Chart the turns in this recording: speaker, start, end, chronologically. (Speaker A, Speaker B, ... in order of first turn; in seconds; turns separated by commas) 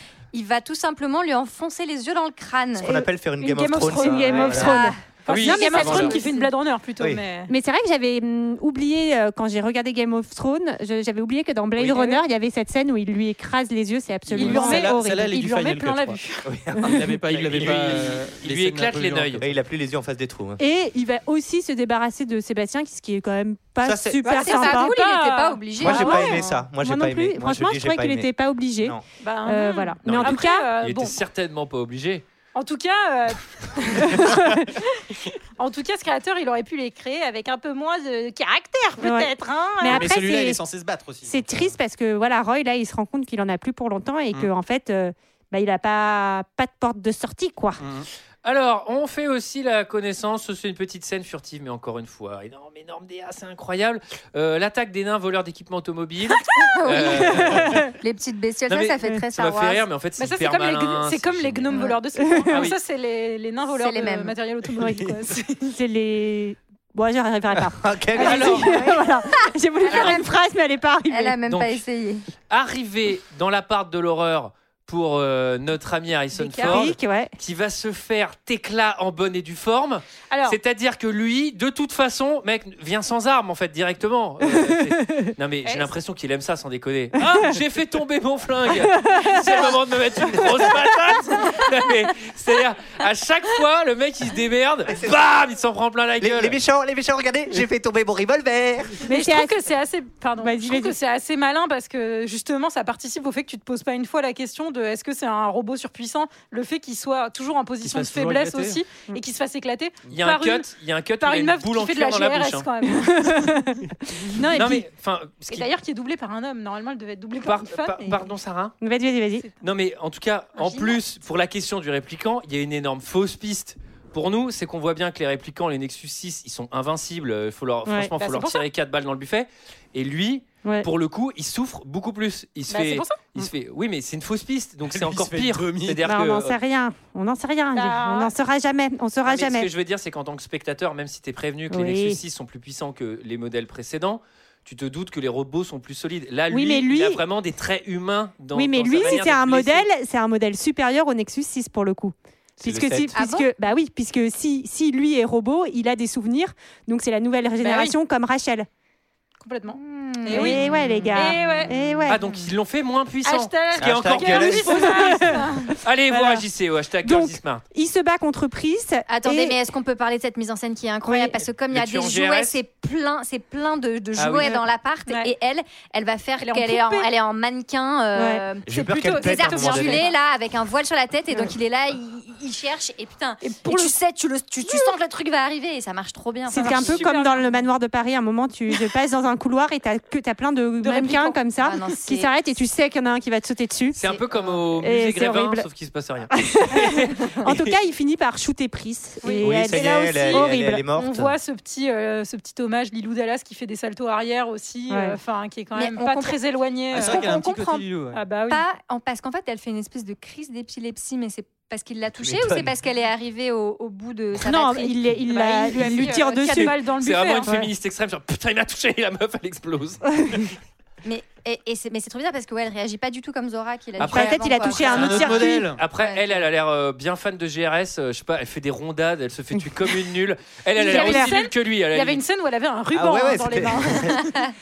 Speaker A: 0.3-2.9, Speaker B: 2.8-4.9, Speaker C: 3.4-7.5, Speaker D: 3.9-6.5, Speaker A: 4.5-6.0, Speaker E: 5.2-6.2, Speaker D: 7.5-15.5, Speaker C: 11.8-12.2, Speaker F: 14.3-16.2, Speaker C: 14.3-16.5, Speaker B: 16.4-18.0, Speaker F: 16.9-19.5, Speaker E: 17.5-19.4, Speaker B: 19.4-20.6, Speaker D: 20.6-24.9, Speaker B: 23.8-24.2, Speaker C: 24.2-26.5, Speaker A: 24.2-26.4, Speaker B: 25.8-29.0, Speaker D: 25.9-30.7, Speaker C: 29.2-31.2, Speaker E: 30.0-32.2, Speaker C: 32.5-35.0, Speaker D: 34.1-34.6, Speaker C: 35.6-40.1, Speaker D: 39.0-40.6, Speaker F: 39.8-41.7, Speaker D: 41.3-47.8, Speaker F: 47.8-48.1, Speaker E: 48.4-57.8, Speaker A: 56.6-59.8, Speaker D: 57.6-57.9, Speaker E: 58.7-61.9, Speaker C: 60.2-65.7, Speaker D: 61.8-62.7, Speaker E: 62.5-62.8, Speaker A: 63.7-64.3, Speaker D: 64.8-65.1, Speaker D: 65.7-71.4, Speaker B: 67.5-68.6, Speaker E: 68.2-68.7, Speaker A: 68.7-69.0, Speaker A: 69.8-70.3, Speaker A: 71.1-72.2, Speaker E: 71.5-71.8, Speaker E: 72.5-96.6, Speaker D: 76.6-77.3, Speaker C: 80.3-80.6, Speaker D: 84.5-85.3, Speaker C: 85.6-85.9, Speaker D: 88.9-89.5, Speaker B: 94.9-95.2, Speaker B: 96.2-99.0, Speaker D: 99.1-99.5, Speaker C: 99.1-110.7, Speaker D: 100.4-100.9, Speaker F: 107.8-108.8, Speaker E: 110.1-112.7, Speaker C: 111.2-113.8, Speaker D: 113.0-114.8, Speaker C: 114.3-114.8, Speaker E: 114.5-115.7, Speaker C: 115.5-118.2, Speaker E: 117.4-118.7, Speaker D: 118.8-119.5, Speaker E: 119.6-136.6, Speaker C: 120.6-121.0, Speaker C: 128.2-128.6, Speaker C: 132.7-133.2, Speaker F: 134.9-136.1, Speaker D: 136.0-139.7, Speaker C: 137.7-138.3, Speaker E: 139.2-149.9, Speaker D: 141.7-142.2, Speaker D: 146.5-147.2, Speaker D: 148.5-158.7, Speaker B: 152.7-153.1, Speaker A: 153.1-153.5, Speaker C: 157.6-158.0, Speaker C: 159.4-161.7, Speaker A: 159.7-162.0, Speaker D: 160.3-162.2, Speaker E: 162.1-165.2, Speaker C: 163.2-165.8, Speaker B: 163.8-165.2, Speaker D: 165.0-165.3, Speaker E: 165.8-167.6, Speaker D: 166.1-166.4, Speaker D: 167.0-169.6, Speaker A: 169.1-187.1, Speaker D: 171.0-171.4, Speaker E: 171.7-172.6, Speaker E: 174.2-174.5, Speaker C: 175.1-175.3, Speaker C: 176.4-177.1, Speaker D: 178.2-178.4, Speaker B: 178.7-180.1, Speaker C: 178.7-180.2, Speaker C: 183.4-183.9, Speaker C: 186.5-187.7, Speaker D: 186.5-194.1, Speaker C: 190.8-191.4, Speaker A: 191.6-192.3, Speaker E: 193.9-197.7, Speaker D: 194.7-195.7, Speaker D: 196.4-200.8, Speaker C: 199.2-208.6, Speaker B: 199.4-201.3, Speaker D: 204.9-205.2, Speaker A: 205.8-206.4, Speaker F: 206.9-208.2, Speaker A: 207.0-207.7, Speaker A: 208.5-216.6, Speaker B: 212.2-212.7, Speaker D: 214.4-216.8, Speaker C: 215.3-217.5, Speaker E: 216.8-220.4, Speaker A: 221.0-226.4, Speaker E: 224.0-232.2, Speaker D: 224.0-225.7, Speaker F: 224.8-225.8, Speaker C: 230.8-234.2, Speaker D: 230.8-231.4, Speaker B: 232.9-234.2